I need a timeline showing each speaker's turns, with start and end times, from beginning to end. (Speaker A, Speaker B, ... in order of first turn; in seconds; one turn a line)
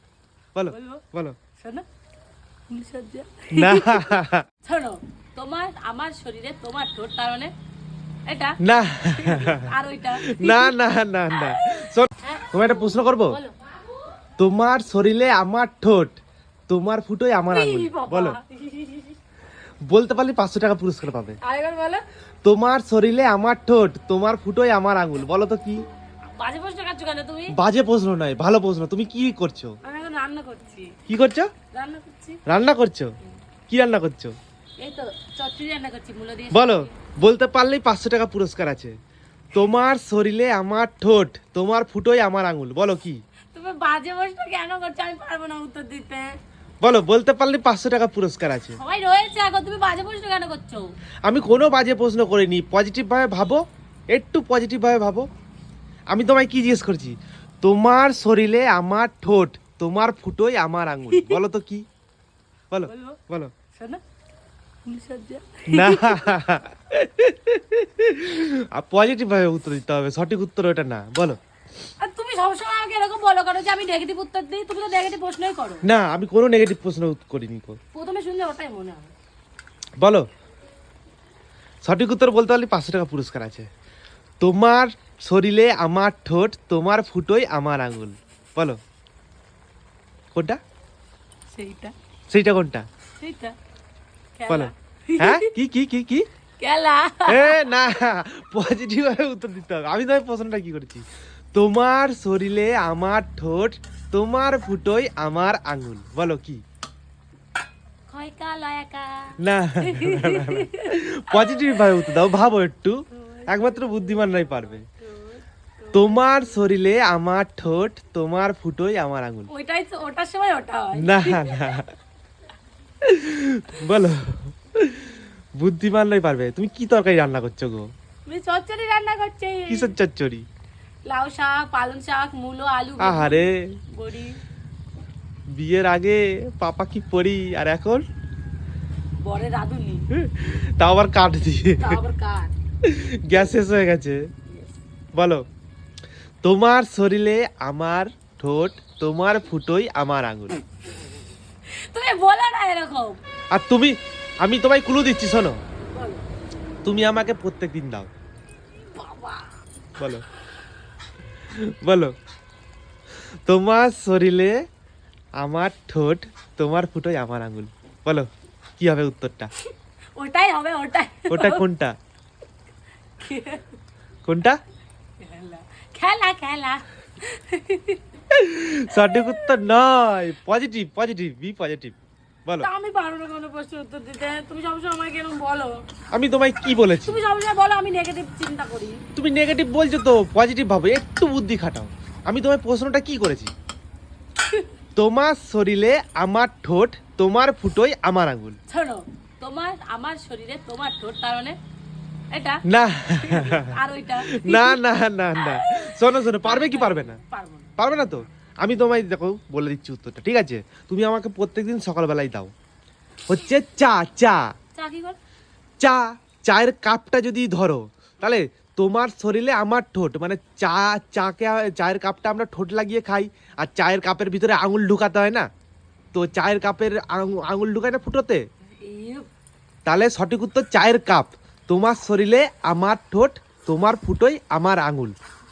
Speaker A: 0.5-1.4
Speaker B: 0.7-1.0
Speaker B: 1.6-1.8
Speaker B: 2.7-7.5
Speaker A: 3.5-4.4
Speaker B: 8.3-8.6
Speaker A: 8.6-13.4
Speaker B: 9.1-10.8
Speaker B: 11.3-13.6
Speaker A: 14.4-18.4
Speaker B: 17.5-19.1
Speaker A: 19.9-21.4
Speaker B: 21.4-22.0
Speaker A: 22.4-25.8
Speaker B: 26.3-27.5
Speaker A: 27.5-29.8
Speaker B: 29.8-31.0
Speaker A: 31.1-31.5
Speaker B: 31.7-32.4
Speaker A: 32.5-33.1
Speaker A: 33.7-34.4
Speaker B: 34.8-36.9
Speaker A: 36.5-39.0
Speaker A: 39.5-43.2
Speaker B: 43.5-46.4
Speaker A: 46.8-48.8
Speaker B: 48.8-51.0
Speaker A: 51.2-55.3
Speaker A: 56.1-61.8
Speaker B: 61.1-61.4
Speaker A: 62.7-63.5
Speaker B: 62.8-63.2
Speaker B: 63.7-64.0
Speaker B: 64.8-66.4
Speaker A: 65.7-71.4
Speaker B: 72.0-75.8
Speaker A: 75.8-77.8
Speaker B: 77.9-79.1
Speaker A: 80.0-80.3
Speaker A: 81.8-83.7
Speaker A: 84.4-88.8
Speaker A: 90.3-90.6
Speaker B: 91.5-91.9
Speaker A: 92.3-92.9
Speaker B: 93.2-93.5
Speaker B: 94.4-95.5
Speaker A: 94.5-96.3
Speaker B: 96.6-97.6
Speaker A: 97.3-106.6
Speaker B: 108.1-112.2
Speaker A: 109.4-114.8
Speaker B: 113.1-116.5
Speaker A: 115.9-119.5
Speaker B: 119.5-121.8
Speaker A: 121.0-121.9
Speaker A: 123.0-127.9
Speaker B: 128.2-129.9
Speaker A: 129.7-130.5
Speaker B: 131.0-134.4
Speaker A: 133.0-133.8
Speaker A: 135.5-138.0
Speaker B: 139.2-140.1
Speaker A: 140.1-142.0
Speaker B: 141.8-142.5
Speaker A: 142.8-144.3
Speaker A: 145.1-145.4
Speaker A: 146.4-150.6
Speaker B: 151.7-153.2
Speaker A: 153.5-155.6
Speaker B: 155.8-156.3
Speaker A: 156.8-158.1
Speaker B: 158.9-159.6
Speaker A: 160.0-160.2
Speaker A: 161.5-162.1
Speaker A: 163.4-164.6
Speaker A: 165.4-169.5
Speaker B: 169.6-171.6
Speaker A: 171.3-171.9
Speaker B: 173.2-173.7
Speaker A: 174.2-174.6
Speaker B: 175.2-178.0
Speaker A: 178.3-182.7
Speaker B: 178.9-179.6
Speaker B: 182.6-185.8
Speaker A: 186.1-187.2
Speaker B: 186.9-189.0
Speaker A: 189.2-193.5
Speaker A: 194.9-198.6
Speaker B: 198.7-201.6
Speaker B: 202.3-202.6
Speaker A: 202.7-207.2
Speaker B: 203.2-204.8
Speaker B: 205.4-207.8
Speaker A: 207.8-212.5
Speaker A: 213.3-214.5
Speaker B: 214.7-215.2
Speaker A: 215.8-225.5
Speaker A: 226.1-228.4
Speaker B: 228.8-229.3
Speaker A: 229.8-235.1